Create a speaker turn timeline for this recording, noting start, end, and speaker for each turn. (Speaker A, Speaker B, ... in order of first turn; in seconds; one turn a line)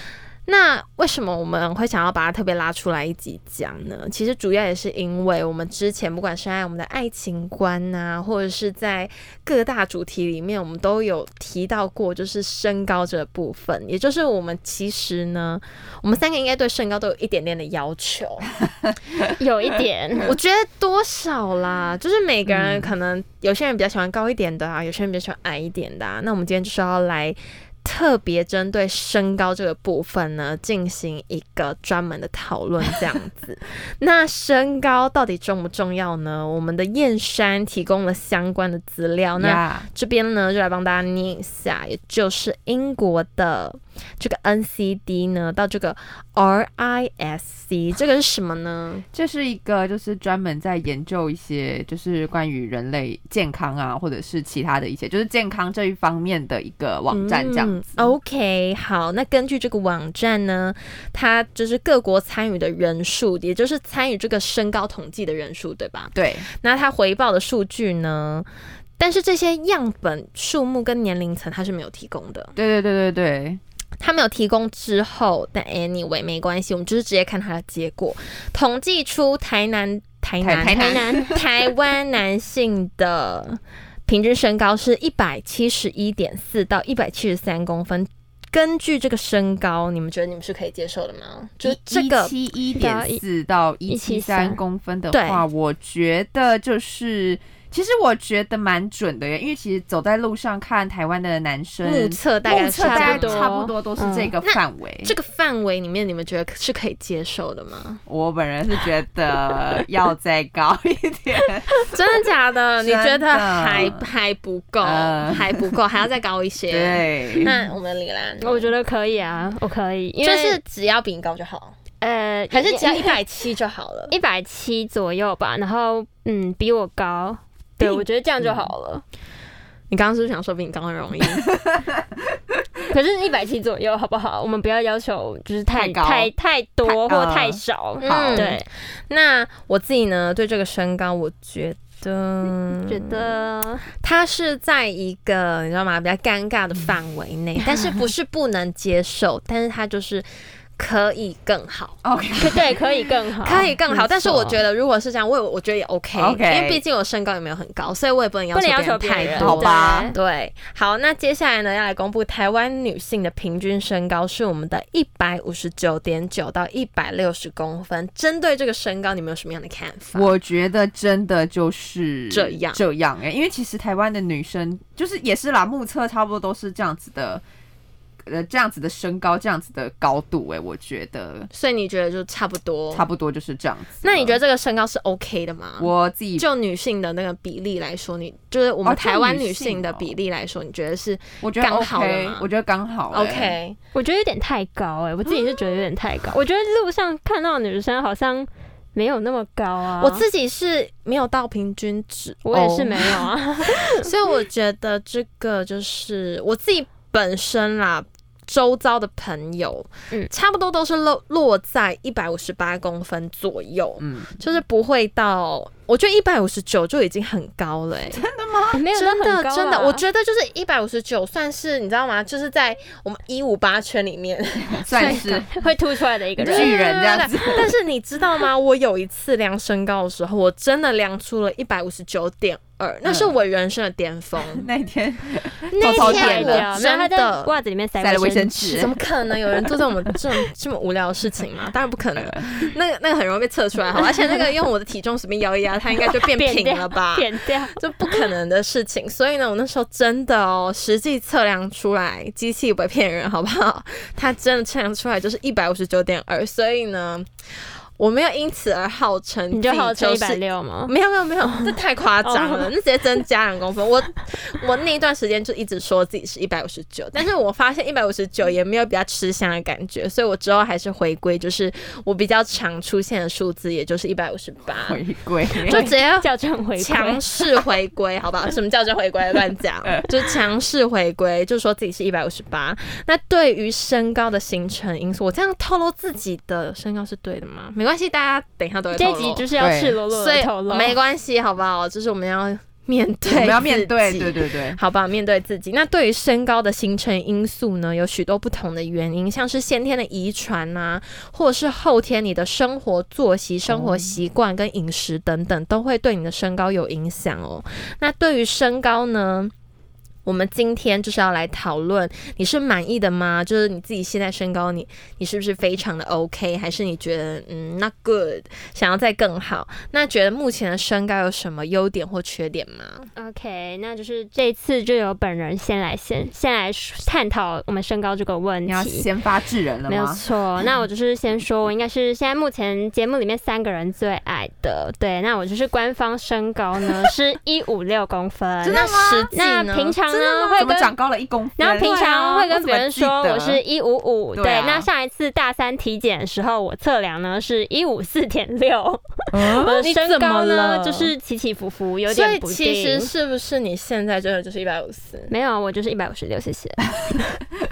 Speaker A: 0.5-18.5
Speaker B: 19.4-20.4
Speaker A: 20.2-49.0
Speaker C: 22.5-22.9
Speaker C: 39.4-39.9
Speaker C: 49.1-58.1
Speaker A: 57.1-68.5
Speaker C: 66.2-66.5
Speaker A: 69.0-72.5
Speaker C: 72.6-73.6
Speaker A: 74.0-92.3
Speaker C: 80.4-81.4
Speaker B: 80.6-81.4
Speaker C: 91.6-105.1
Speaker B: 92.8-93.2
Speaker B: 93.9-94.6
Speaker A: 95.1-95.4
Speaker A: 101.8-103.5
Speaker B: 102.8-104.3
Speaker A: 104.4-108.0
Speaker C: 108.1-112.0
Speaker A: 111.8-118.7
Speaker C: 112.8-114.0
Speaker C: 114.8-115.7
Speaker C: 116.7-117.5
Speaker B: 118.4-120.6
Speaker A: 120.2-121.8
Speaker B: 122.0-123.2
Speaker A: 122.5-124.1
Speaker B: 124.1-129.0
Speaker C: 128.4-128.7
Speaker A: 129.9-131.6
Speaker C: 131.2-132.0
Speaker B: 132.9-138.7
Speaker C: 135.7-136.3
Speaker C: 136.8-138.6
Speaker A: 138.0-143.4
Speaker B: 142.7-143.9
Speaker A: 144.0-150.3
Speaker A: 150.8-152.0
Speaker C: 152.0-152.6
Speaker B: 152.4-153.8
Speaker A: 153.4-170.3
Speaker C: 153.9-154.6
Speaker C: 156.2-156.8
Speaker B: 158.5-160.2
Speaker C: 159.3-160.1
Speaker C: 170.2-177.4
Speaker A: 172.3-172.8
Speaker C: 178.3-181.5
Speaker A: 181.5-183.1
Speaker C: 182.9-184.4
Speaker A: 184.0-192.5
Speaker C: 185.8-186.5
Speaker C: 188.8-190.1
Speaker C: 191.4-193.6
Speaker A: 193.1-193.8
Speaker B: 193.9-200.2
Speaker A: 200.0-218.3
Speaker B: 202.4-204.1
Speaker C: 214.0-214.3
Speaker C: 218.1-218.8
Speaker B: 218.7-220.0
Speaker A: 218.9-225.5
Speaker C: 224.7-225.5
Speaker B: 225.5-227.5
Speaker C: 226.4-227.7
Speaker A: 226.4-234.7
Speaker C: 233.1-233.4
Speaker C: 234.5-236.7
Speaker A: 235.7-237.5
Speaker B: 235.8-238.8
Speaker C: 238.0-239.0
Speaker A: 238.6-257.3
Speaker C: 239.5-240.2
Speaker C: 242.2-242.7
Speaker B: 246.3-248.2
Speaker A: 258.0-275.0
Speaker B: 259.5-260.9
Speaker B: 261.5-262.7
Speaker C: 274.8-275.9
Speaker A: 275.6-289.5
Speaker B: 275.7-277.2
Speaker B: 288.9-291.0
Speaker C: 289.6-290.0
Speaker A: 290.1-309.5
Speaker C: 293.3-294.8
Speaker C: 303.6-304.1
Speaker A: 310.3-323.1
Speaker B: 323.2-329.1
Speaker C: 328.7-330.2
Speaker B: 329.9-340.9
Speaker C: 338.6-339.3
Speaker A: 338.7-340.8
Speaker C: 340.6-343.6
Speaker B: 341.6-353.1
Speaker A: 341.8-342.1
Speaker C: 344.4-344.9
Speaker C: 349.3-349.8
Speaker A: 349.4-351.1
Speaker A: 352.1-355.3
Speaker B: 355.3-357.3